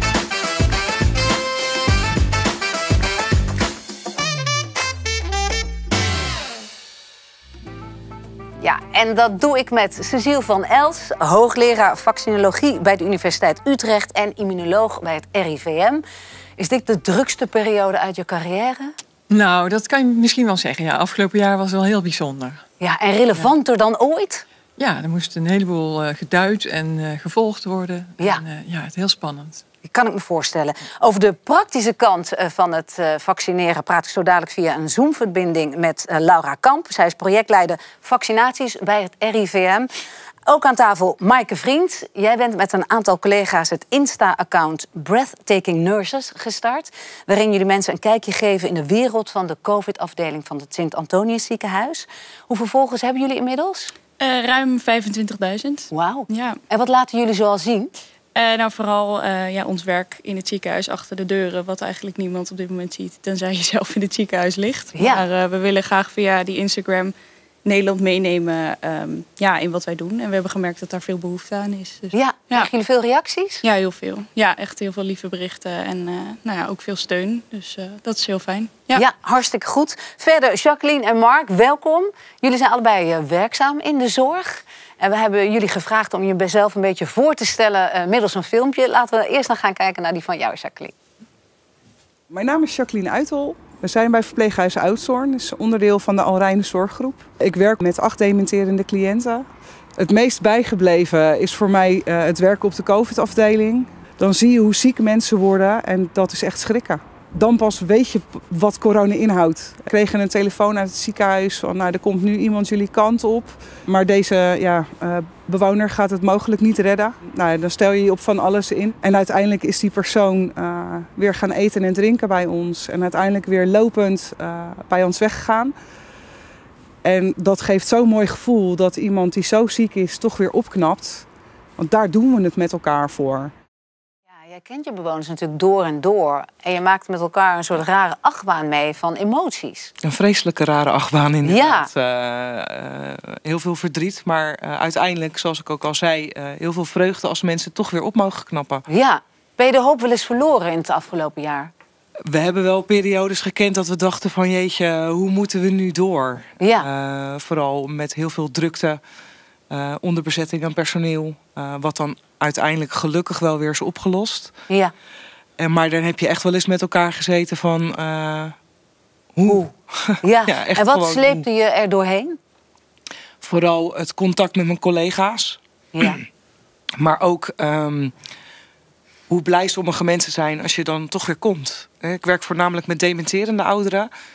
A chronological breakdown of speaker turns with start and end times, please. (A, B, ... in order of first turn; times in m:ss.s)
0:08.6-0:16.0 A
0:16.6-0:19.0 A
0:19.3-0:22.6 B
0:22.8-0:24.4 A
0:24.8-0:29.6 B
0:29.9-0:39.9 A
0:40.5-0:53.9 A
0:54.2-0:56.6 C
0:55.9-0:57.9 A
0:58.4-1:07.1 C
1:05.0-1:05.2 A
1:07.6-1:12.7 C
1:12.1-1:13.6 A
1:13.6-1:19.0 C
1:19.0-1:30.9 A
1:32.3-1:39.5 D
1:40.0-2:05.7 D
2:07.0-2:11.3 D
2:11.8-2:13.5 D
2:14.3-2:19.9 A
2:20.0-2:28.8 E
2:21.4-2:21.9 A
2:28.9-2:31.7 A
2:32.3-2:39.0 E
2:36.6-2:36.9 A
2:39.7-2:44.6 E
2:45.6-2:48.6 E
2:49.4-2:51.4 E
2:50.2-2:52.4 A
2:53.4-2:56.2 E
2:56.0-2:56.2 A
2:57.0-2:58.1 E
2:59.3-3:04.1 E